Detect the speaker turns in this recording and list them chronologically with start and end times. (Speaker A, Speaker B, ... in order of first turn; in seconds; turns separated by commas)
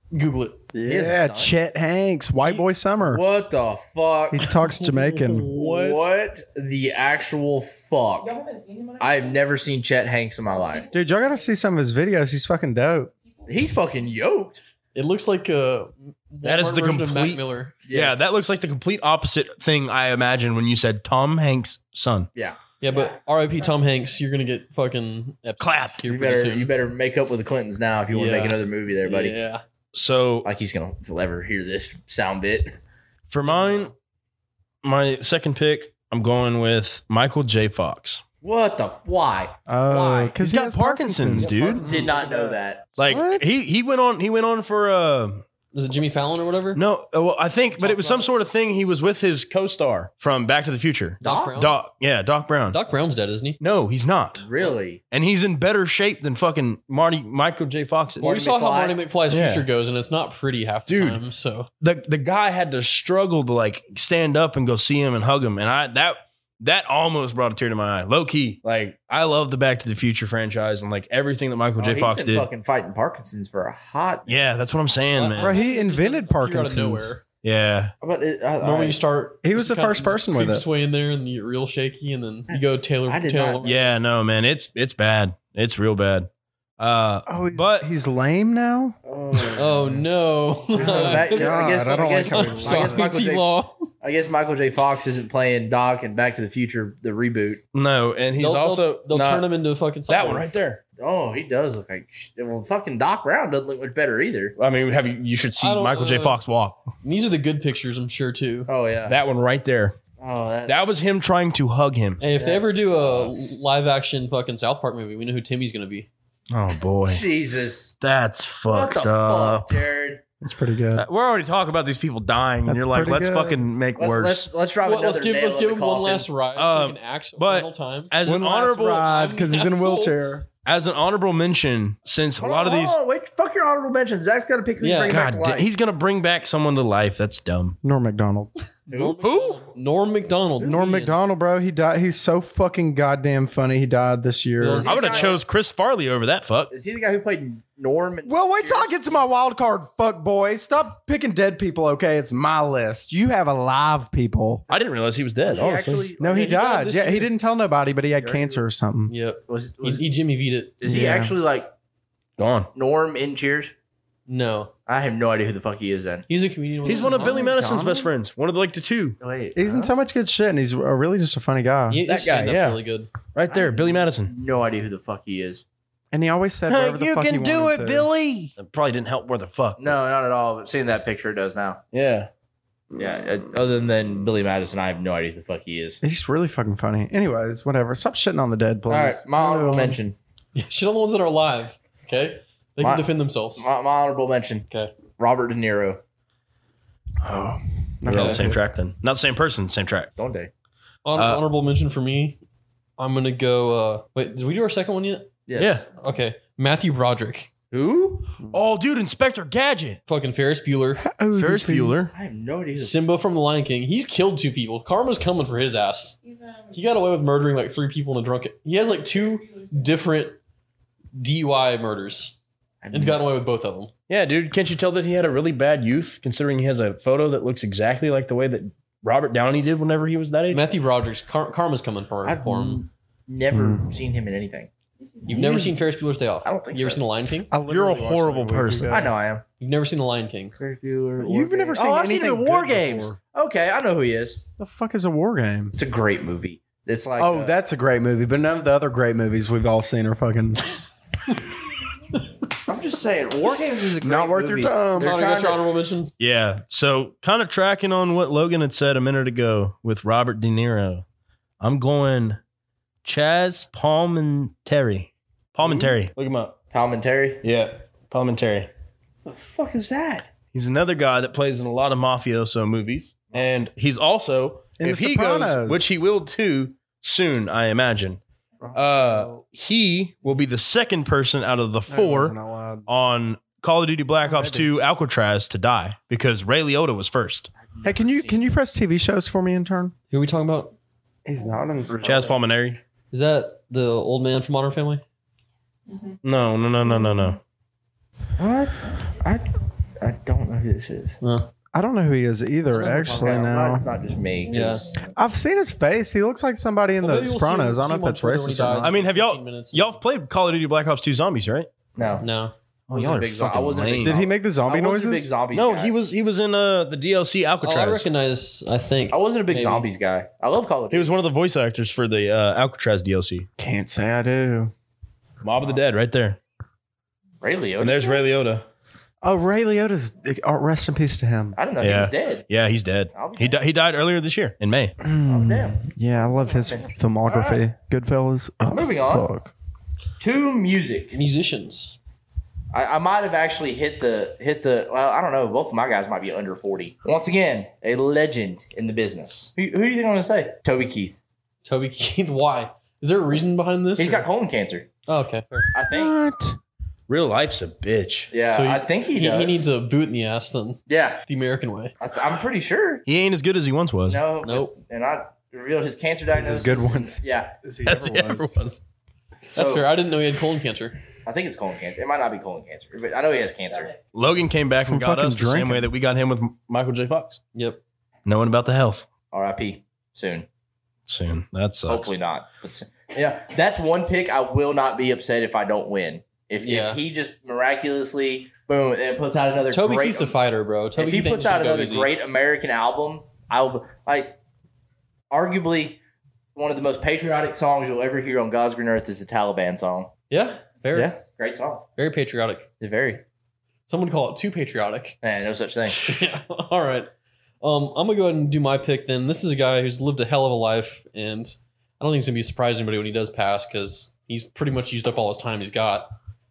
Speaker A: 0.1-0.6, Speaker B: 0.7-3.2, Speaker C: 0.8-1.5, Speaker C: 3.0-4.5, Speaker B: 4.3-6.0, Speaker A: 4.7-5.4, Speaker C: 5.5-8.4, Speaker D: 8.2-9.4, Speaker C: 9.0-10.9, Speaker B: 10.9-13.1, Speaker C: 13.5-14.6, Speaker A: 14.9-17.7, Speaker E: 16.4-22.3, Speaker C: 17.9-18.2, Speaker A: 22.8-26.7, Speaker D: 22.9-23.7, Speaker E: 25.6-26.0, Speaker C: 26.1-29.4, Speaker A: 28.1-29.6, Speaker E: 29.9-30.5, Speaker C: 30.4-32.7, Speaker E: 33.3-33.9, Speaker A: 33.5-33.9, Speaker E: 34.8-38.2, Speaker C: 38.4-40.4, Speaker B: 39.7-43.5, Speaker E: 40.4-42.1, Speaker C: 41.4-43.0, Speaker E: 43.0-45.4, Speaker A: 45.7-46.8, Speaker E: 46.7-52.8, Speaker A: 47.8-48.3, Speaker C: 51.2-51.6, Speaker A: 51.2-51.8, Speaker A: 52.7-53.6, Speaker E: 53.6-54.5, Speaker C: 54.4-55.0, Speaker E: 55.1-58.3, Speaker C: 58.2-59.0, Speaker A: 58.2-61.7, Speaker E: 59.3-59.6, Speaker E: 60.9-61.2, Speaker E: 61.8-72.5, Speaker C: 71.8-74.4, Speaker E: 74.3-75.6, Speaker A: 75.1-77.2, Speaker B: 75.4-77.2, Speaker E: 77.4-77.9, Speaker C: 78.0-79.0, Speaker A: 78.6-83.8, Speaker B: 79.4-80.6, Speaker C: 82.5-83.8, Speaker E: 83.6-87.9, Speaker B: 87.2-89.0, Speaker C: 89.0-89.9, Speaker A: 89.5-93.9, Speaker C: 90.7-93.5, Speaker B: 90.8-93.3, Speaker C: 94.0-97.6, Speaker E: 97.7-99.4, Speaker A: 98.4-100.5, Speaker E: 100.1-100.8, Speaker C: 101.0-104.5, Speaker E: 104.6-106.9, Speaker A: 105.6-106.4, Speaker A: 107.0-108.7, Speaker C: 108.7-109.2, Speaker E: 109.0-110.0, Speaker C: 110.2-111.2, Speaker E: 110.7-112.2, Speaker A: 112.2-116.1, Speaker C: 112.3-113.6, Speaker E: 116.5-117.2, Speaker C: 117.0-118.0, Speaker E: 118.0-119.8, Speaker C: 118.7-120.2, Speaker B: 120.4-121.0, Speaker E: 120.9-124.5, Speaker B: 122.6-123.7, Speaker C: 124.0-126.3, Speaker A: 124.8-128.1, Speaker E: 126.5-129.2, Speaker B: 128.2-130.5, Speaker A: 129.1-130.1, Speaker E: 130.6-133.0, Speaker C: 132.4-135.7, Speaker A: 134.8-135.2, Speaker E: 135.1-137.8, Speaker B: 137.8-138.5, Speaker A: 138.9-141.2, Speaker C: 138.9-139.2, Speaker E: 139.2-139.6, Speaker C: 140.6-140.9, Speaker B: 140.6-144.9, Speaker A: 144.6-145.4, Speaker C: 144.8-145.4, Speaker E: 144.8-146.7, Speaker C: 146.7-149.2, Speaker B: 148.2-154.6, Speaker E: 154.7-156.1, Speaker C: 155.4-156.8, Speaker B: 156.2-159.1, Speaker A: 156.3-157.3, Speaker C: 158.2-158.6, Speaker A: 159.1-160.8, Speaker C: 159.5-160.1, Speaker C: 160.8-161.7, Speaker B: 160.8-161.3, Speaker E: 162.4-162.7, Speaker C: 162.7-163.7, Speaker A: 164.3-164.7, Speaker C: 164.9-166.2, Speaker A: 166.3-167.5, Speaker E: 166.8-169.2, Speaker C: 166.9-168.0, Speaker B: 167.1-168.1, Speaker C: 169.2-169.9, Speaker B: 169.5-172.0, Speaker A: 171.9-173.1, Speaker E: 172.1-172.8, Speaker E: 173.3-174.3, Speaker C: 173.5-175.6, Speaker B: 176.1-178.1, Speaker E: 176.7-180.0, Speaker C: 179.8-181.8, Speaker E: 181.9-182.3, Speaker C: 182.9-186.0, Speaker B: 186.0-190.0, Speaker C: 188.9-190.2, Speaker A: 190.5-193.7, Speaker C: 192.8-196.0, Speaker A: 194.7-194.9, Speaker B: 197.2-198.6, Speaker E: 197.2-200.1, Speaker A: 198.1-198.5, Speaker C: 200.2-200.5, Speaker A: 201.0-202.4, Speaker E: 201.2-201.4, Speaker A: 203.0-205.3, Speaker C: 205.5-205.8, Speaker E: 205.6-205.8, Speaker A: 206.0-207.5, Speaker C: 207.7-208.3, Speaker E: 208.5-210.0, Speaker A: 210.1-211.0, Speaker B: 211.0-212.0, Speaker E: 211.3-212.1, Speaker C: 212.1-213.0, Speaker A: 212.7-216.2, Speaker D: 216.3-216.7, Speaker A: 216.7-220.4, Speaker D: 219.3-219.7, Speaker A: 221.1-222.4, Speaker C: 222.8-223.2, Speaker A: 222.9-223.9, Speaker E: 224.1-230.7, Speaker A: 230.5-232.8, Speaker C: 232.2-234.7, Speaker B: 233.5-233.9, Speaker A: 235.3-237.5, Speaker C: 235.3-235.7, Speaker C: 236.4-237.0, Speaker B: 237.5-239.1, Speaker E: 237.7-239.0, Speaker C: 238.9-239.4, Speaker A: 239.6-240.5, Speaker C: 240.6-244.4, Speaker B: 241.2-243.2, Speaker B: 244.6-245.7, Speaker C: 245.7-247.5, Speaker B: 247.2-250.6, Speaker C: 252.6-255.6, Speaker B: 254.0-255.5, Speaker A: 255.0-256.1, Speaker E: 256.2-261.0, Speaker E: 261.6-262.4, Speaker E: 263.0-266.6, Speaker C: 266.7-267.4, Speaker E: 267.4-268.7, Speaker C: 269.2-270.3, Speaker E: 270.5-278.2, Speaker B: 274.8-275.9, Speaker C: 278.6-279.3, Speaker E: 278.7-287.5, Speaker B: 281.9-282.9, Speaker B: 284.2-284.7, Speaker C: 287.6-288.4, Speaker B: 287.8-289.9, Speaker A: 290.1-290.7, Speaker B: 291.2-292.3, Speaker C: 291.9-292.4, Speaker E: 292.0-292.8, Speaker A: 293.1-295.0, Speaker D: 295.9-296.1, Speaker E: 296.2-297.4, Speaker C: 298.4-299.5, Speaker C: 300.0-301.2, Speaker A: 301.2-301.5, Speaker B: 301.7-303.9, Speaker A: 302.7-303.4, Speaker C: 303.0-304.9, Speaker A: 304.5-304.9, Speaker B: 305.1-309.0, Speaker A: 307.0-310.0, Speaker E: 308.8-311.7, Speaker C: 311.9-312.2, Speaker A: 312.2-312.5, Speaker E: 312.9-314.2, Speaker C: 312.9-315.9, Speaker B: 314.0-315.3, Speaker E: 315.5-318.1, Speaker A: 317.6-319.9, Speaker C: 319.1-321.1, Speaker E: 320.9-323.5, Speaker B: 323.6-324.7, Speaker E: 325.4-326.4, Speaker C: 327.4-328.3, Speaker E: 327.8-328.6, Speaker B: 329.2-331.6, Speaker C: 331.6-332.4, Speaker E: 331.8-334.9, Speaker C: 333.1-333.6, Speaker B: 335.0-339.5, Speaker C: 335.2-337.6, Speaker C: 338.6-339.3, Speaker C: 340.2-341.2, Speaker A: 341.1-342.0, Speaker C: 342.7-351.2, Speaker A: 351.6-354.3, Speaker C: 354.0-354.9, Speaker A: 355.1-355.7, Speaker C: 355.7-356.1, Speaker B: 355.9-356.6, Speaker E: 357.1-358.3, Speaker C: 358.3-359.6, Speaker A: 358.5-361.9, Speaker C: 360.9-361.2, Speaker C: 362.0-363.0, Speaker E: 363.1-364.2, Speaker C: 364.1-367.5, Speaker A: 364.4-364.7, Speaker B: 366.3-368.6, Speaker E: 367.9-368.8, Speaker A: 369.5-371.0, Speaker C: 369.5-369.9, Speaker C: 371.2-373.9, Speaker E: 374.1-377.4, Speaker B: 374.8-375.9, Speaker A: 377.5-377.8, Speaker E: 378.2-379.1, Speaker C: 379.3-380.5, Speaker E: 381.1-382.1, Speaker C: 381.9-390.4, Speaker A: 386.6-387.0, Speaker A: 389.7-392.1, Speaker C: 390.9-394.4, Speaker C: 395.3-396.0, Speaker C: 396.5-400.1, Speaker A: 400.3-401.1, Speaker C: 400.9-401.9, Speaker A: 402.0-402.7, Speaker C: 402.8-403.2, Speaker A: 403.9-405.2, Speaker C: 405.2-406.1, Speaker A: 405.9-416.1